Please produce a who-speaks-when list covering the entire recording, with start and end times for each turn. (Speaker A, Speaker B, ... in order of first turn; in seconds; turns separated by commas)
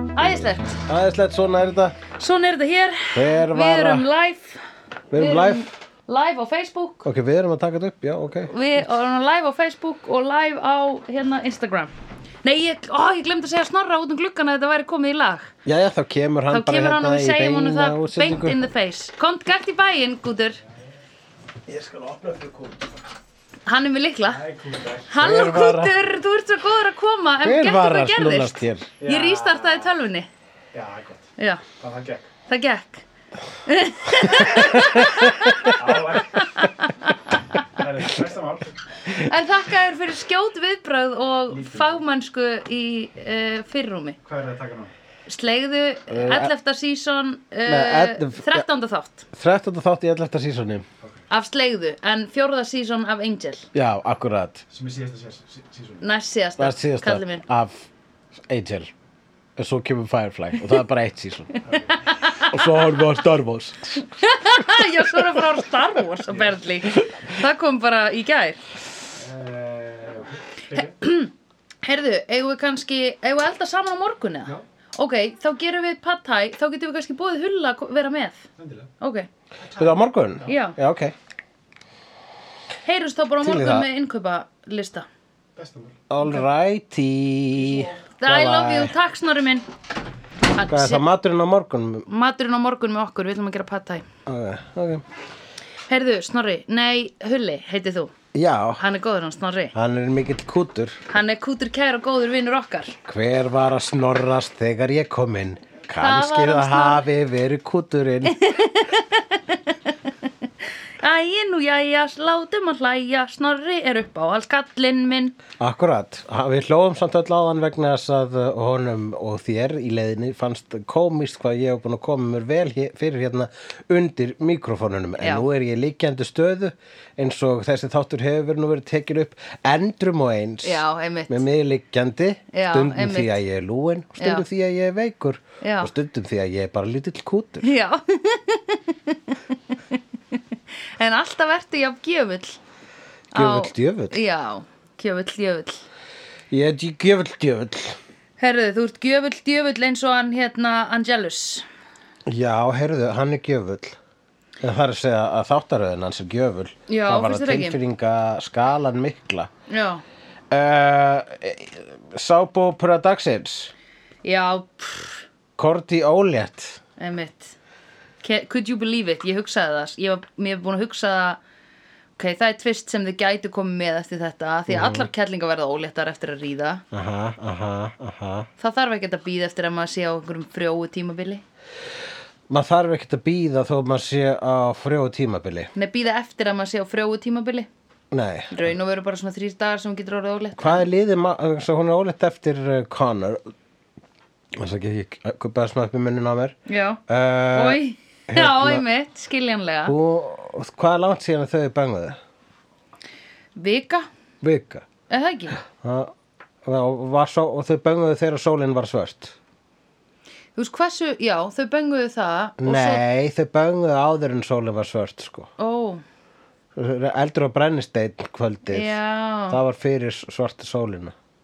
Speaker A: 0.1-0.8, Speaker B: 0.8-2.0, Speaker A: 2.1-4.6, Speaker B: 3.1-4.1, Speaker B: 5.1-5.7, Speaker A: 5.1-7.1, Speaker B: 7.0-8.8, Speaker A: 8.5-11.9, Speaker A: 12.4-15.5, Speaker B: 15.7-18.6, Speaker A: 16.5-20.6, Speaker B: 21.7-22.6, Speaker A: 23.6-24.4, Speaker C: 24.3-25.3, Speaker A: 25.1-30.3, Speaker B: 25.2-26.0, Speaker B: 27.4-28.9, Speaker C: 29.0-29.9, Speaker C: 30.7-32.3, Speaker A: 31.4-31.6, Speaker A: 32.5-33.0, Speaker A: 33.6-35.8, Speaker B: 34.2-35.7, Speaker C: 35.7-36.7, Speaker A: 36.3-37.8, Speaker C: 37.7-38.7, Speaker A: 39.0-44.2, Speaker C: 41.5-42.0, Speaker C: 44.2-44.9, Speaker A: 45.3-49.3, Speaker B: 46.1-46.5, Speaker B: 47.6-48.6, Speaker B: 49.3-50.9, Speaker A: 51.3-53.7, Speaker B: 53.7-54.6, Speaker C: 54.7-56.0, Speaker A: 56.0-57.5, Speaker B: 56.6-57.9, Speaker B: 58.4-58.9, Speaker B: 59.6-61.6, Speaker C: 61.6-62.1, Speaker A: 62.0-62.8, Speaker B: 62.5-64.0, Speaker A: 64.0-68.6, Speaker C: 69.1-71.0, Speaker A: 70.7-71.3, Speaker A: 71.8-78.4, Speaker C: 78.6-78.9, Speaker A: 79.0-79.3, Speaker C: 79.6-79.9, Speaker B: 79.8-81.1, Speaker A: 80.5-80.8, Speaker A: 82.8-85.0, Speaker B: 83.4-83.9, Speaker C: 85.6-86.0, Speaker B: 86.1-88.9, Speaker A: 88.2-89.7, Speaker A: 90.5-91.0, Speaker B: 90.7-92.0, Speaker A: 92.1-94.0, Speaker B: 94.2-95.0, Speaker A: 95.9-98.1, Speaker B: 98.3-98.8, Speaker A: 98.8-99.7, Speaker B: 99.7-101.0, Speaker A: 101.1-103.0, Speaker B: 103.0-108.4, Speaker A: 106.0-107.0, Speaker A: 108.2-110.1, Speaker A: 111.0-115.4, Speaker B: 115.6-137.7, Speaker A: 125.2-125.4, Speaker A: 130.6-131.4, Speaker A: 132.5-133.4, Speaker A: 134.2-134.4, Speaker A: 135.6-135.9, Speaker A: 137.6-142.6, Speaker A: 143.3-145.8, Speaker B: 143.3-144.2, Speaker B: 146.5-148.0, Speaker A: 148.4-151.6, Speaker B: 152.3-154.0, Speaker B: 154.6-159.5, Speaker A: 156.9-157.8, Speaker A: 159.7-160.0, Speaker B: 160.5-163.7, Speaker A: 164.2-165.2, Speaker B: 165.6-166.8, Speaker A: 167.0-167.6, Speaker A: 168.2-171.4, Speaker A: 172.2-176.8, Speaker B: 174.7-175.1, Speaker B: 176.9-178.5, Speaker A: 178.6-181.4, Speaker B: 182.5-185.7, Speaker A: 185.7-187.7, Speaker B: 188.1-188.7, Speaker A: 188.5-190.9, Speaker B: 190.6-193.4, Speaker B: 194.5-196.5, Speaker A: 196.7-199.9, Speaker B: 197.1-197.8, Speaker B: 198.3-198.8, Speaker B: 199.8-202.2, Speaker A: 203.6-204.1, Speaker B: 204.4-204.8, Speaker A: 205.1-205.6, Speaker B: 205.6-206.1, Speaker B: 206.6-209.3, Speaker A: 210.6-213.0, Speaker B: 212.6-215.5, Speaker A: 215.6-216.0, Speaker B: 216.7-219.0, Speaker A: 218.7-219.6, Speaker B: 219.5-221.1